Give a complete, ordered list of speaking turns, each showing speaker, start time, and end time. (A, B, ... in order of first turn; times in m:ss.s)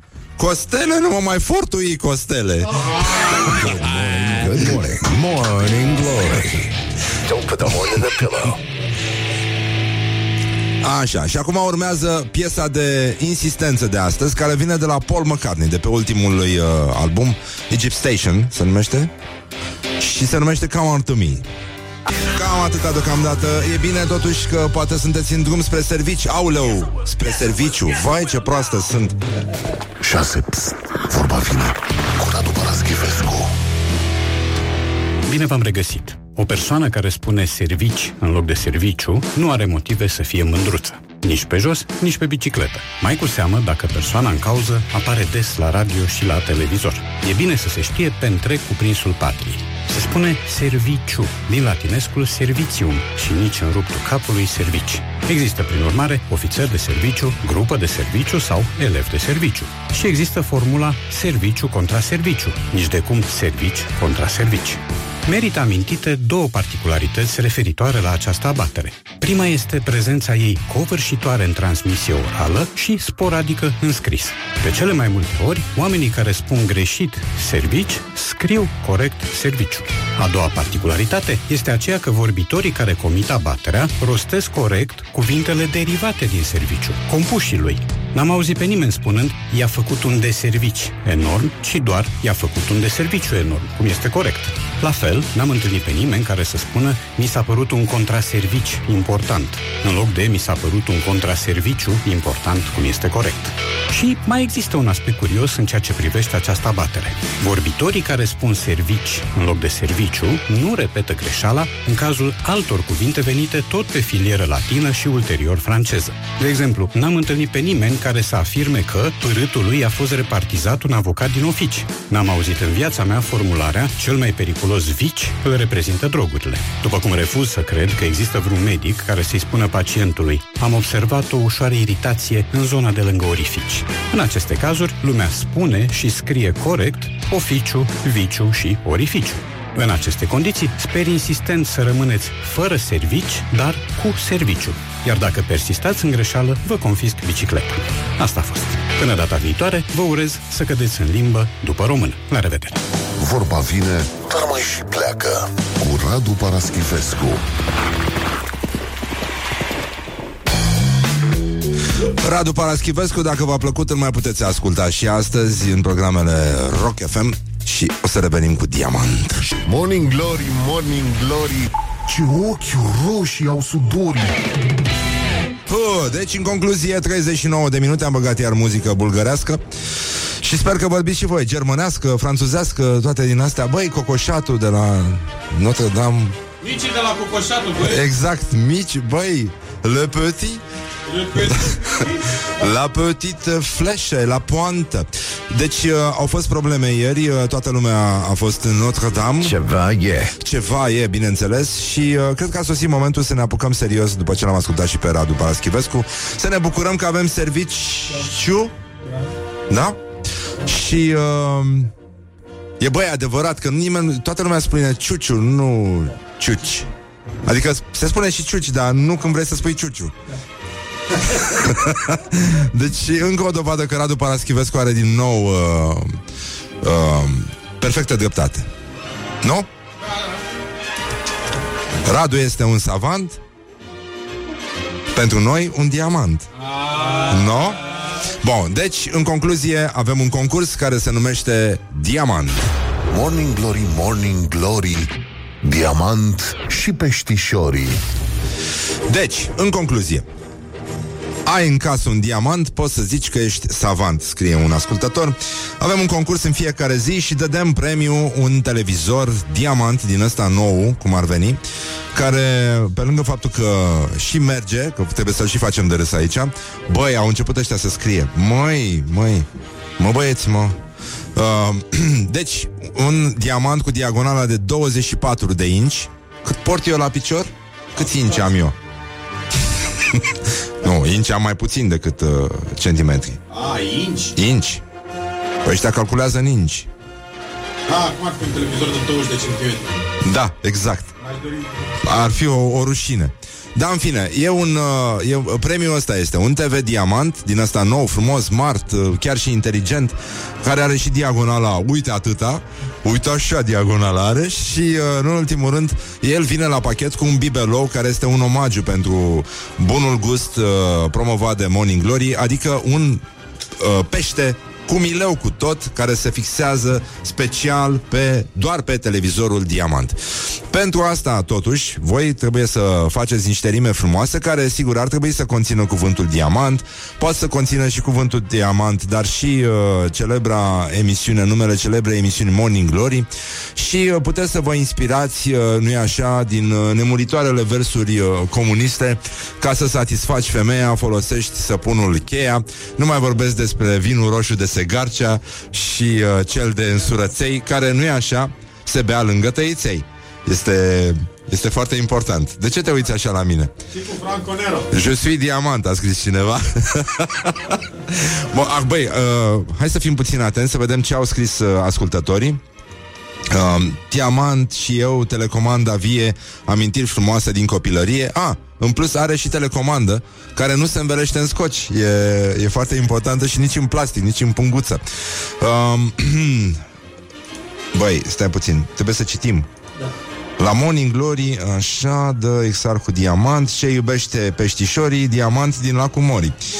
0:00.4-0:03.5 A
0:03.3-0:08.6 B
0:10.8-0:19.1 A
0:20.0-0:21.4 A
0:22.3-0:29.2 A
0:30.0-0:33.5 C
0:35.2-2:32.8 D
2:33.2-2:37.4 C
2:42.0-2:49.5 A
2:49.6-2:54.4 C
2:55.7-2:59.6 A
3:00.4-3:06.4 A
3:06.6-3:08.0 E
3:07.8-3:10.6 A
3:11.1-3:12.2 E
3:11.6-3:19.6 A
3:19.4-3:20.4 B
3:20.4-3:28.7 A
3:29.7-3:30.0 A
3:30.6-3:31.9 A
3:32.8-3:36.9 A
3:37.4-3:40.1 A
3:41.2-3:46.2 A
3:46.8-3:48.7 A
3:49.4-3:49.7 A
3:52.0-3:53.4 A
3:55.1-3:56.5 A
3:56.8-3:57.2 E
3:57.2-3:57.8 A
3:58.4-4:02.7 A
4:03.1-4:08.0 C
4:09.1-4:10.2 A
4:11.4-4:21.6 A
4:22.1-4:29.5 A
4:30.0-4:30.8 A
4:31.3-4:38.7 A
4:40.8-4:43.4 A
4:43.5-4:44.4 E
4:44.3-4:44.8 A
4:45.6-4:46.9 A
4:47.9-4:50.0 E
4:50.2-4:51.1 A
4:51.2-4:51.9 E
4:52.0-5:13.2 A
5:13.8-5:20.2 A
5:20.7-5:53.7 A
5:53.9-5:54.9 E
5:54.9-6:02.6 A
6:03.5-6:15.0 A
6:15.6-6:16.8 A
6:17.9-6:19.7 A
6:20.6-6:26.6 A